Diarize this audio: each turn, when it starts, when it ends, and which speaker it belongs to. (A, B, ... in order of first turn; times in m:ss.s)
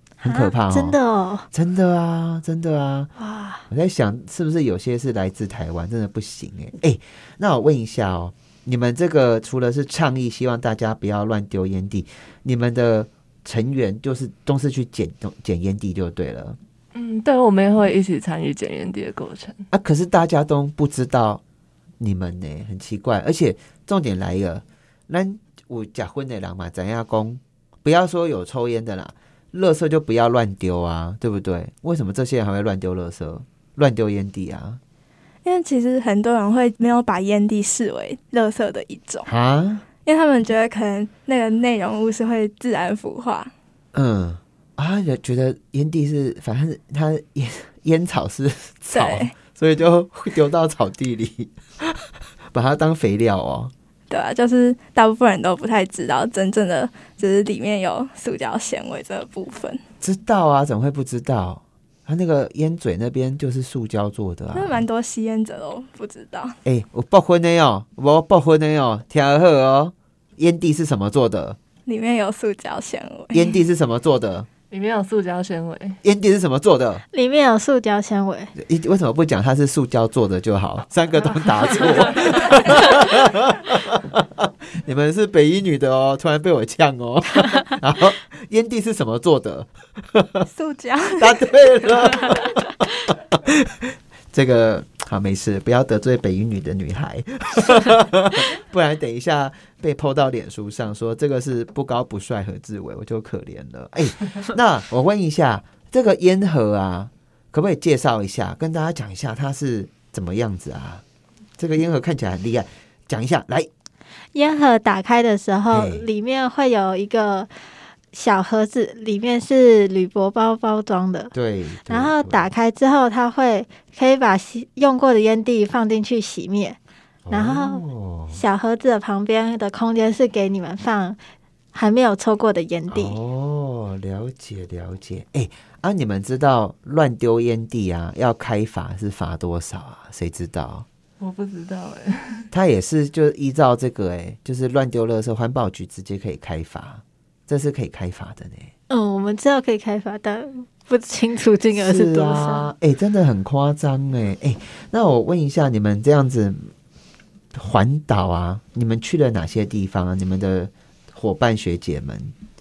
0:00.2-0:01.5 A
0:00.2-0:01.0 B
0:01.5-0:03.1 B
0:03.2-0:03.6 A
0:03.7-0:16.6 B
0:16.9-0:19.7 C
0:19.7-0:21.4 B
0:22.0-0:34.8 B
0:35.4-0:39.3 D
0:39.3-0:39.8 B
0:40.0-0:43.5 D
0:43.9-0:53.7 B
0:48.9-0:49.3 D
0:54.1-0:59.8 D
1:00.0-1:04.8 B
1:04.5-1:06.6 D
1:06.6-1:11.6 B
1:11.9-1:13.6 D
1:13.3-1:14.5 B
1:14.7-1:16.0 C
1:16.0-1:17.0 B
1:17.1-1:18.5 A
1:18.6-1:30.5 B
1:30.5-1:31.5 D
1:31.2-1:51.0 B
1:51.6-1:53.7 B
1:54.3-1:57.5 A
1:55.7-1:56.1 B
1:58.1-2:01.3 A
2:01.3-2:02.5 B
2:01.9-2:06.8 A
2:07.3-2:08.4 B
2:07.3-2:11.2 A
2:11.7-2:13.2 A
2:12.9-2:20.9 B
2:21.2-2:22.5 C
2:22.5-2:28.7 B
2:28.9-2:32.7 A
2:31.8-2:36.7 B
2:37.5-2:42.3 B